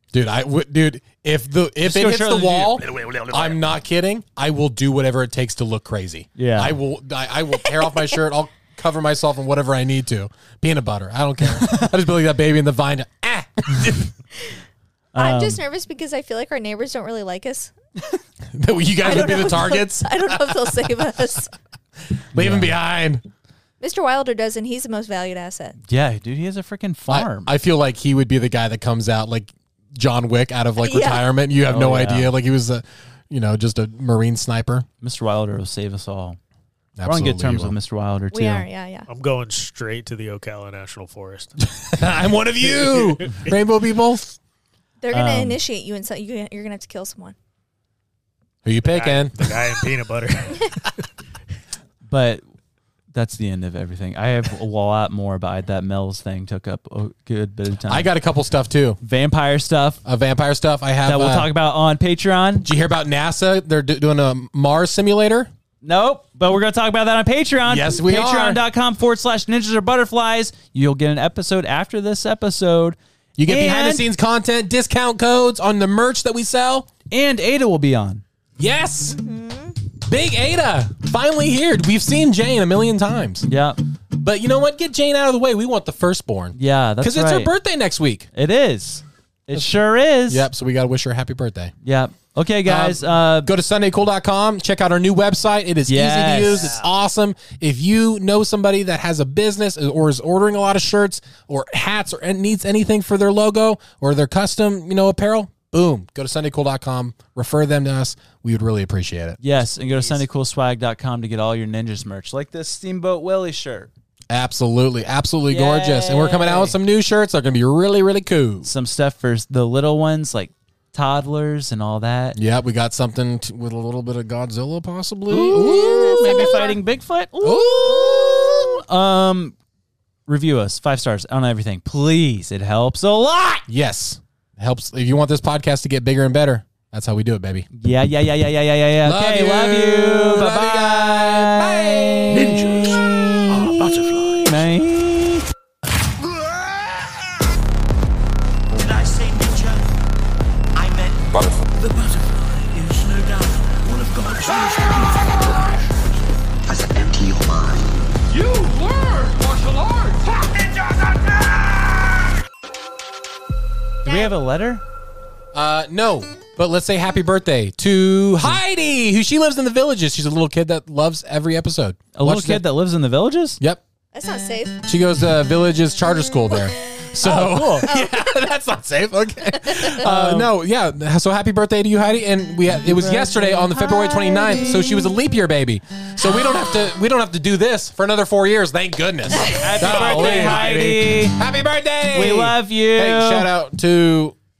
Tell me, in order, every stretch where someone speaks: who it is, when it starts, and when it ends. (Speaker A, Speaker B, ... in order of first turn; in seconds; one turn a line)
Speaker A: 0.1-14.1
Speaker B: 1.8-3.0
Speaker C: 3.0-3.4
Speaker B: 6.3-6.8
Speaker B: 15.1-15.6
Speaker D: 15.2-17.7
Speaker A: 18.5-21.0
Speaker D: 19.0-21.5
Speaker A: 22.1-23.2
Speaker B: 22.4-22.8
Speaker D: 23.8-25.8
Speaker B: 25.9-27.5
Speaker A: 27.1-34.9
Speaker D: 30.8-31.2
Speaker B: 31.7-32.4
Speaker B: 35.0-36.4
Speaker A: 37.0-37.7
Speaker B: 37.0-38.7
Speaker D: 38.3-39.1
Speaker E: 39.1-41.5
Speaker A: 41.6-44.4
Speaker E: 42.6-43.5
Speaker D: 45.0-47.4
Speaker B: 45.1-45.6
Speaker A: 48.6-49.9
Speaker E: 48.8-50.7
Speaker B: 52.0-52.4
Speaker B: 53.1-58.1
Speaker A: 57.8-59.0
Speaker B: 59.0-60.0
Speaker A: 60.0-61.5
Speaker B: 61.0-62.7
Speaker A: 62.6-65.5
Speaker B: 65.8-74.0
Speaker A: 67.7-68.6
Speaker A: 73.4-76.9
Speaker B: 77.1-78.2
Speaker A: 78.6-79.2
Speaker D: 79.2-79.8
Speaker A: 80.0-83.5
Speaker B: 83.5-83.8
Speaker A: 84.1-88.3
Speaker B: 86.6-87.5
Speaker B: 88.3-90.5
Speaker A: 90.3-91.7
Speaker B: 91.8-93.5
Speaker A: 92.7-110.2
Speaker B: 95.9-96.7
Speaker E: 96.6-96.8
Speaker B: 109.4-113.9
Speaker A: 114.3-118.7
Speaker B: 115.5-116.8
Speaker B: 118.6-122.4
Speaker A: 122.3-126.7
Speaker B: 125.3-129.5
Speaker D: 125.5-126.8
Speaker A: 127.4-128.6
Speaker B: 130.3-133.7
Speaker A: 133.7-137.7
Speaker B: 137.8-145.5
Speaker A: 139.0-142.6
Speaker C: 142.3-144.7
Speaker C: 148.7-149.9
Speaker C: 150.7-156.1
Speaker C: 156.7-162.3
Speaker B: 164.0-164.8
Speaker A: 165.5-172.6
Speaker B: 172.1-173.6
Speaker D: 174.1-174.8
Speaker A: 174.8-194.3
Speaker B: 177.2-177.9
Speaker D: 177.9-178.2
Speaker B: 179.9-180.5
Speaker B: 182.8-184.5
Speaker B: 189.3-191.4
Speaker B: 192.1-193.5